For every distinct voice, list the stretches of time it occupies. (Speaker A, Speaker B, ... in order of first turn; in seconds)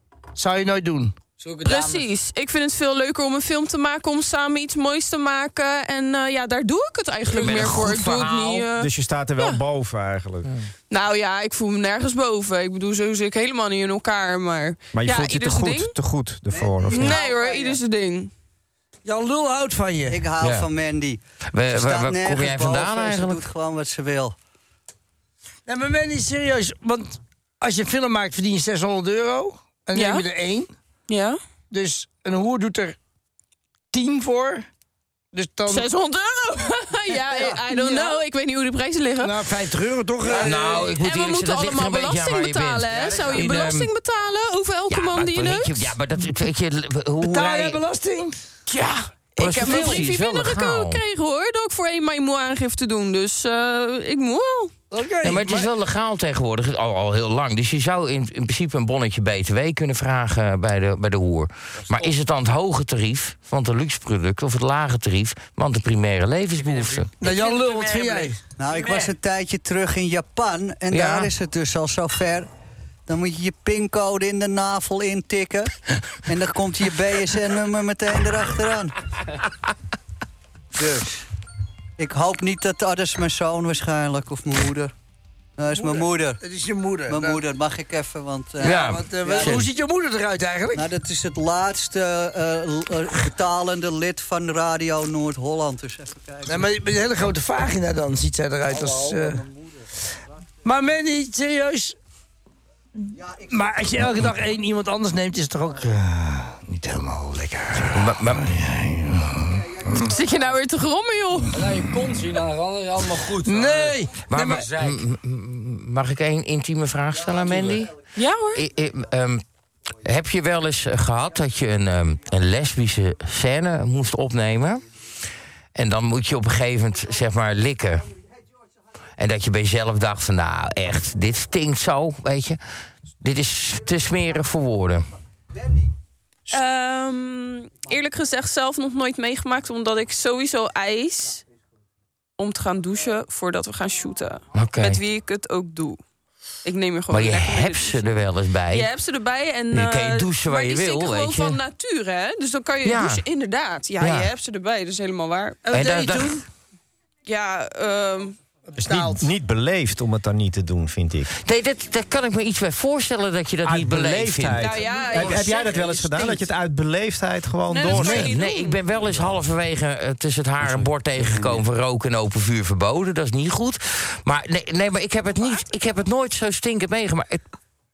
Speaker A: 0.4-1.1, 19.1-20.2, 25.7-30.7, 31.7-33.0, 33.9-34.7, 35.3-35.9, 39.2-40.9, 47.2-48.4, 54.9-55.7, 67.2-68.4, 85.7-87.4, 88.6-90.9, 96.5-99.4, 100.6-102.0, 103.5-108.0, 113.4-114.6, 155.7-156.4, 158.8-159.3
Speaker B: 1.4-2.1, 42.9-43.4, 61.9-62.1, 66.5-69.1, 98.7-99.3, 111.5-115.0, 117.4-117.8, 170.6-171.7
Speaker C: 1.6-9.6, 10.9-15.9, 16.9-18.3, 29.9-30.3, 31.1-31.4, 35.7-39.5, 40.6-46.0, 48.7-54.8, 110.0-111.6, 118.2-118.6, 136.5-141.4, 142.4-146.0, 146.6-148.1, 148.7-155.6, 157.3-158.4, 164.6-166.4, 167.7-168.8
Speaker D: 7.3-8.7, 20.4-20.7, 21.5-23.5, 40.4-43.9, 44.9-47.8, 49.4-51.0, 55.2-67.1, 70.9-71.3, 88.6-89.7, 107.9-108.5, 114.3-118.0, 118.5-119.4, 120.0-124.8, 125.8-128.1, 129.2-132.6, 133.2-135.1, 144.5-145.0, 147.1-148.9, 149.7-151.6, 152.8-153.2, 154.0-154.3, 155.7-156.4, 161.4-164.7, 167.9-177.4
Speaker E: 8.7-10.5, 14.9-17.2, 158.8-161.3, 163.6-168.3
Speaker F: 16.5-17.8, 20.1-21.2, 21.7-24.4, 37.3-37.6, 68.6-72.5, 73.1-75.7, 76.3-78.9, 80.8-81.2, 82.0-84.9, 85.6-86.4, 87.1-89.6, 90.7-96.6, 103.2-104.0, 109.8-110.1